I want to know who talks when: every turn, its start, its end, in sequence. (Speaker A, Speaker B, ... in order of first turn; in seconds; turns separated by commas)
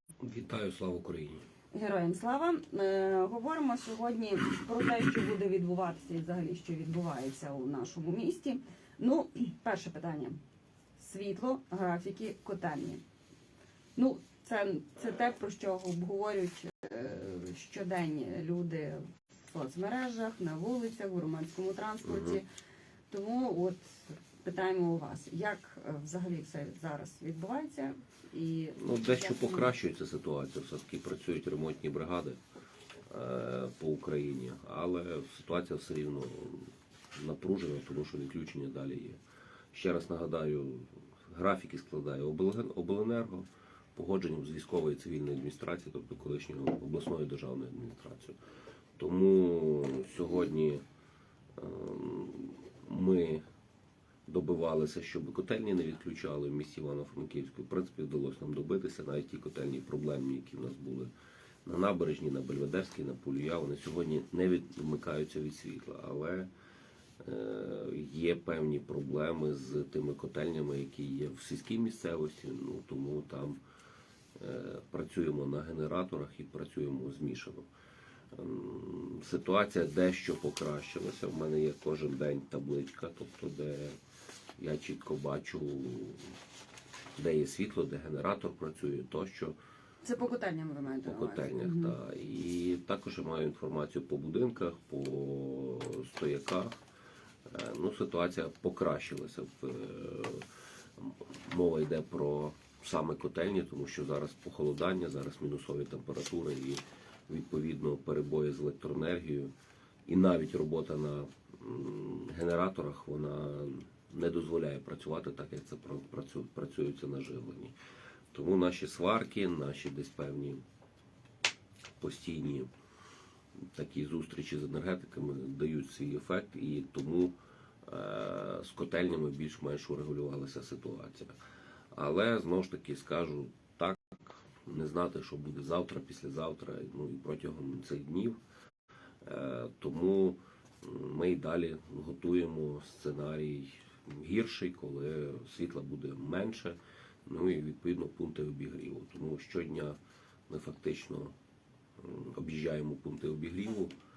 Speaker A: 0.2-1.4, Speaker B: 1.7-10.4, Speaker B: 11.0-13.0, Speaker B: 14.0-22.4, Speaker A: 22.1-22.4, Speaker B: 23.1-29.7, Speaker A: 28.8-32.4, Speaker A: 33.1-39.2, Speaker A: 39.7-48.4, Speaker A: 49.0-50.8, Speaker A: 51.6-53.4, Speaker A: 54.3-61.1, Speaker A: 61.6-66.5, Speaker A: 67.2-73.6, Speaker A: 74.4-77.7, Speaker A: 78.3-84.0, Speaker A: 84.6-86.3, Speaker A: 87.2-89.6, Speaker B: 90.0-92.0, Speaker A: 91.0-96.8, Speaker A: 97.5-109.5, Speaker A: 110.1-117.8, Speaker A: 118.3-120.6, Speaker A: 122.0-122.7, Speaker A: 123.8-127.3, Speaker A: 127.9-131.3, Speaker A: 131.9-138.4, Speaker A: 139.2-150.0, Speaker A: 150.5-151.3, Speaker A: 152.0-153.9